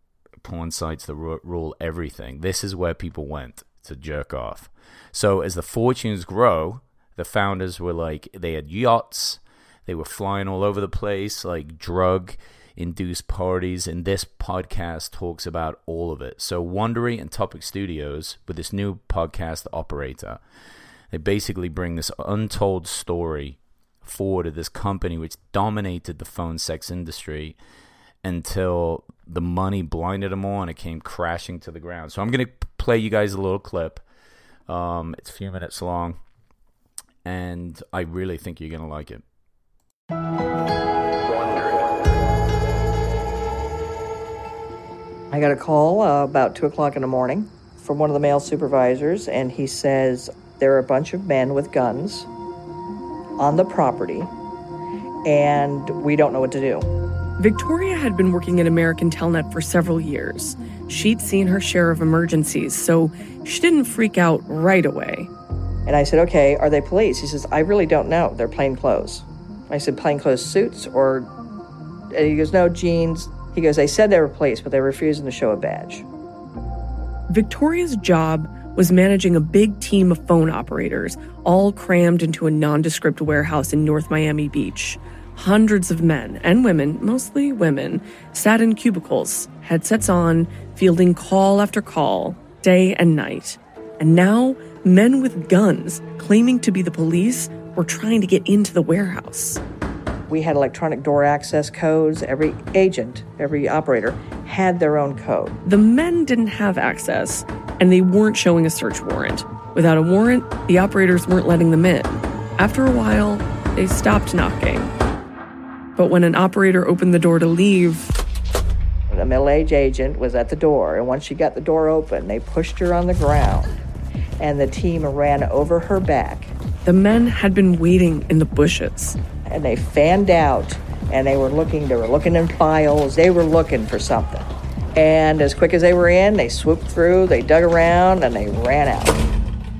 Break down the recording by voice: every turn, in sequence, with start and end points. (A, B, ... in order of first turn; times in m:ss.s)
0:00.4-0:20.4 A
0:21.1-0:27.6 A
0:28.2-0:34.0 A
0:34.7-0:36.2 A
0:37.2-0:39.2 A
0:45.3-0:52.3 B
0:53.4-0:54.3 B
0:55.2-0:56.8 B
0:57.4-1:05.3 C
1:05.8-1:11.3 B
1:12.1-1:16.0 B
1:17.3-1:39.6 C
1:40.3-1:45.6 B
1:45.6-1:54.9 C
1:56.0-1:58.2 C
1:59.1-2:03.8 B
2:04.4-2:06.5 B
2:06.8-2:09.2 C
2:09.5-2:19.2 B